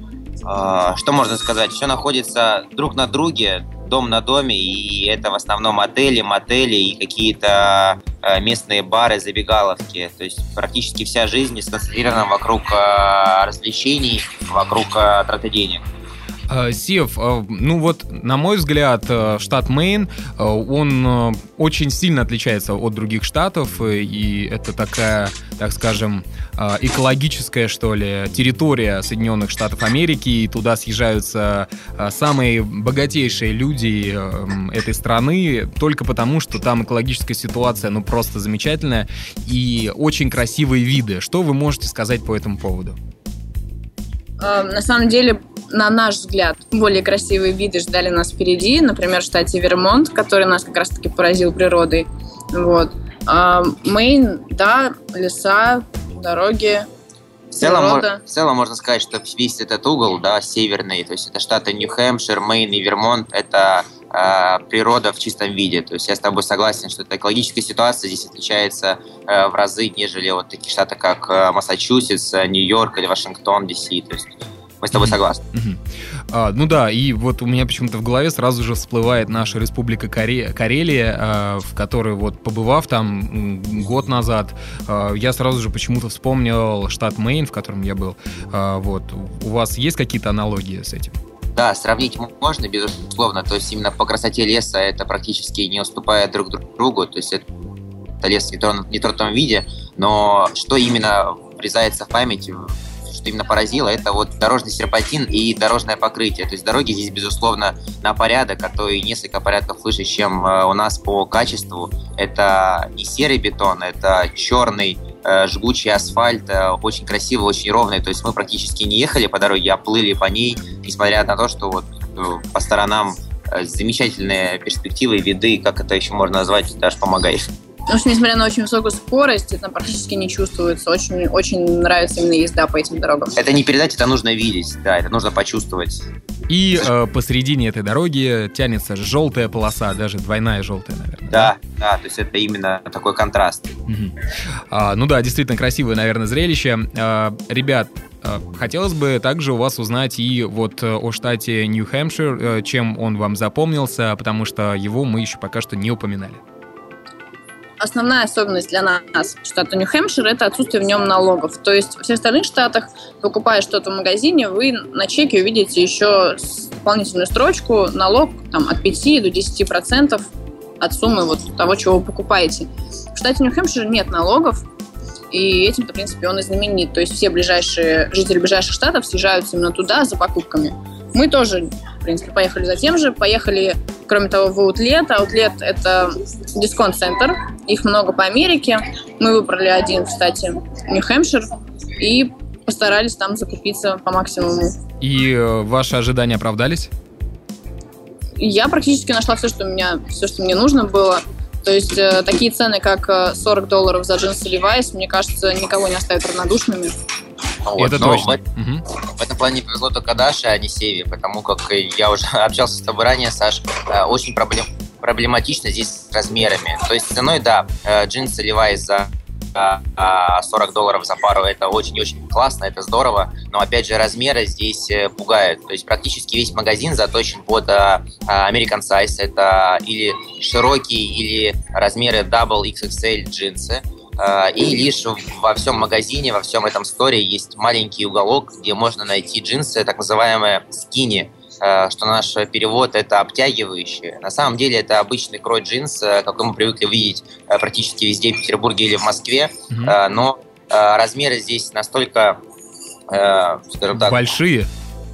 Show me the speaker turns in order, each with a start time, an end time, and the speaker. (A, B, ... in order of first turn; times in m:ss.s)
0:00.4-0:15.8 A
0:16.5-0:43.0 B
0:44.4-0:56.9 C
0:57.5-0:58.2 C
0:57.6-1:15.4 A
1:14.9-1:31.1 B
1:31.6-1:37.4 A
1:38.2-2:07.5 A
2:07.9-2:13.4 C
2:13.4-2:16.0 A
2:16.5-2:21.5 B
2:21.3-2:23.7 A
2:23.9-2:24.1 B
2:24.7-2:36.4 B
2:37.8-2:50.3 C
2:50.8-2:54.6 C
2:55.3-3:14.8 C
3:15.0-3:16.9 B
3:18.4-3:27.0 C
3:27.6-3:28.4 A
3:27.8-3:28.8 B
3:29.1-4:12.4 A
4:09.7-4:10.0 B
4:13.1-4:14.3 A
4:13.9-4:14.7 B